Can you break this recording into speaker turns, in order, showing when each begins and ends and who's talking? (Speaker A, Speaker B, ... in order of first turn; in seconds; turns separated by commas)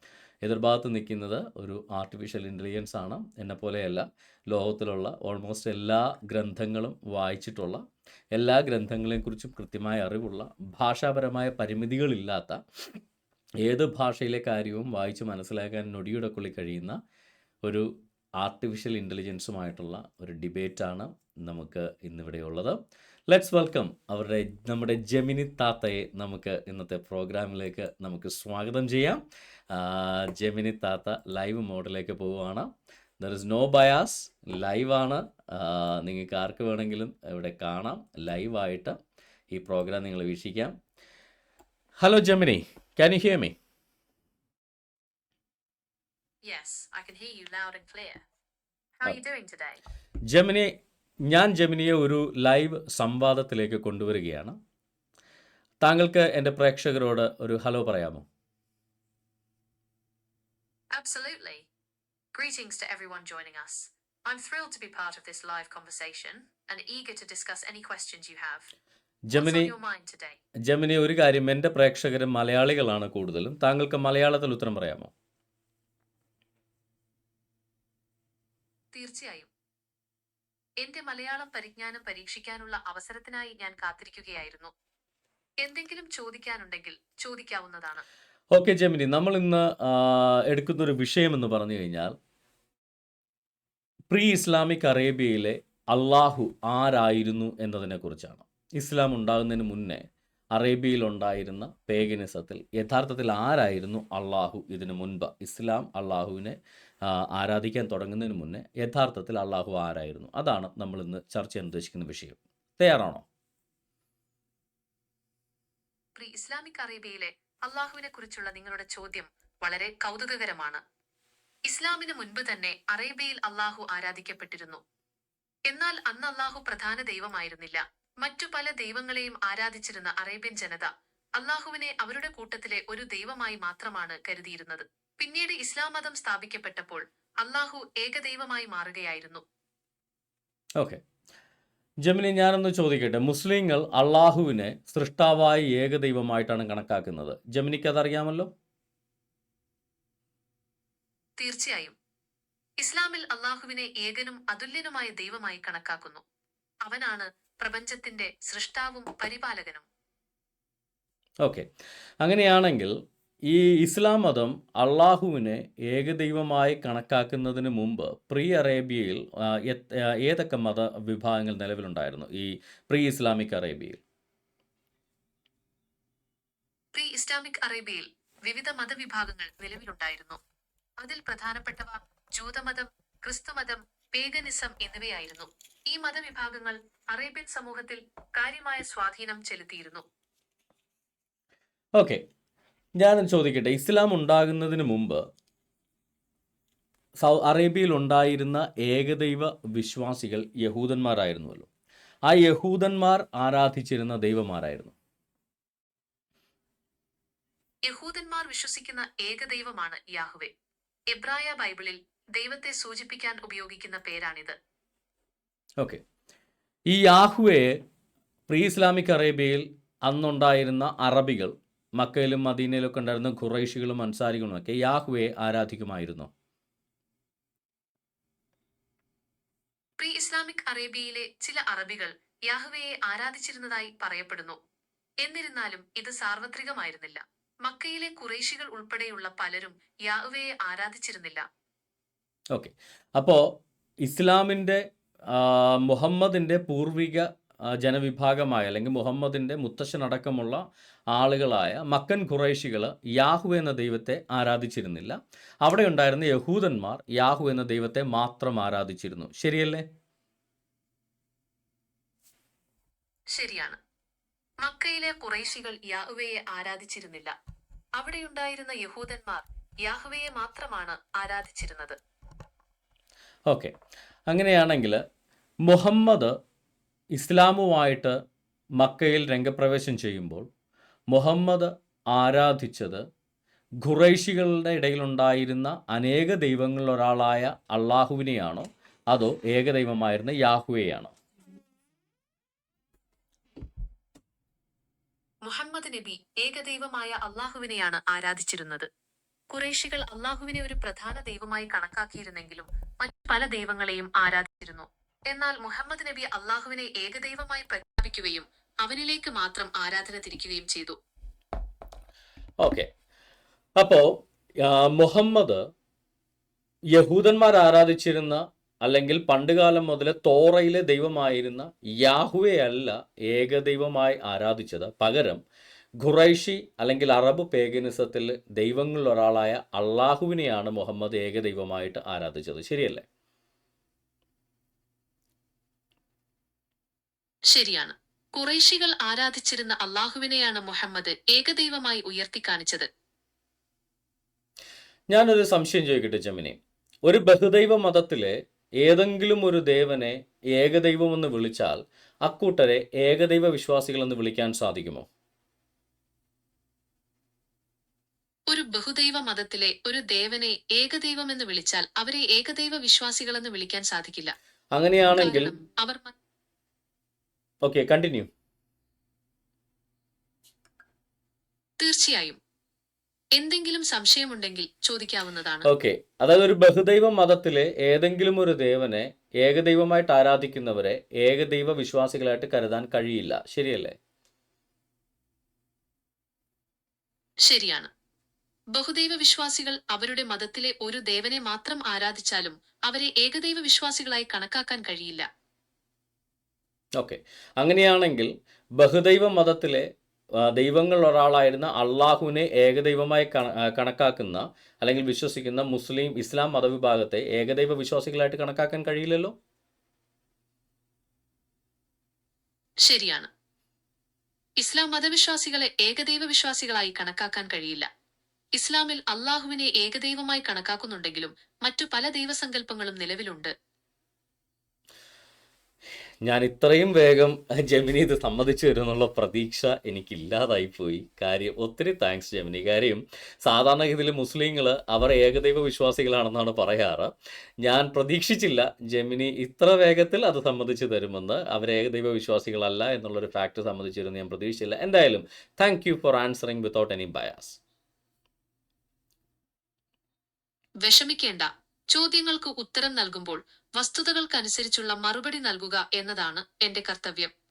Speaker A: 0.4-7.8, Speaker A: 8.3-12.6, Speaker A: 13.6-17.0, Speaker A: 17.6-39.0, Speaker A: 39.5-40.8, Speaker A: 42.0-43.5, Speaker B: 46.5-48.2, Speaker B: 49.0-49.8, Speaker A: 50.3-50.7, Speaker A: 51.2-54.6, Speaker A: 55.8-58.2, Speaker B: 60.9-61.7, Speaker B: 62.3-68.7, Speaker A: 69.3-69.7, Speaker B: 69.3-70.4, Speaker A: 70.7-75.1, Speaker B: 78.9-79.5, Speaker B: 80.8-84.7, Speaker B: 85.6-88.0, Speaker A: 88.5-92.1, Speaker A: 94.1-113.2, Speaker B: 116.2-120.8, Speaker B: 121.7-124.8, Speaker B: 125.7-139.4, Speaker A: 142.0-148.5, Speaker B: 151.4-151.9, Speaker B: 152.8-156.2, Speaker B: 156.8-159.9, Speaker A: 161.4-161.7, Speaker A: 162.2-162.9, Speaker A: 163.5-174.0, Speaker B: 176.9-180.4, Speaker B: 181.0-190.0, Speaker A: 191.9-192.2, Speaker A: 193.0-195.2, Speaker A: 197.2-201.7, Speaker A: 202.3-204.9, Speaker B: 207.9-210.5, Speaker B: 211.1-214.6, Speaker A: 216.9-217.8, Speaker A: 218.5-226.3, Speaker B: 230.0-234.6, Speaker B: 235.2-241.4, Speaker A: 242.5-243.5, Speaker A: 244.0-259.8, Speaker B: 263.3-263.8, Speaker B: 264.6-267.3, Speaker B: 268.0-272.0, Speaker A: 273.5-273.7, Speaker A: 274.3-275.0, Speaker A: 275.6-276.3, Speaker A: 277.1-278.2, Speaker A: 278.8-280.5, Speaker A: 281.1-283.0, Speaker A: 283.8-291.1, Speaker B: 295.4-298.9, Speaker B: 299.5-311.0, Speaker A: 312.6-312.9, Speaker A: 313.8-315.6, Speaker A: 316.9-325.4, Speaker A: 326.0-333.0, Speaker B: 337.5-342.9, Speaker A: 345.1-355.1, Speaker B: 358.5-364.3, Speaker A: 364.7-365.5, Speaker B: 365.1-366.1, Speaker A: 367.6-368.3, Speaker B: 371.8-372.4, Speaker B: 373.4-375.7, Speaker A: 375.6-384.0, Speaker B: 387.4-387.9, Speaker B: 388.7-395.3, Speaker A: 397.0-409.3, Speaker B: 412.9-413.3, Speaker B: 414.6-417.9, Speaker B: 418.6-423.5, Speaker A: 426.2-447.6, Speaker B: 450.8-457.3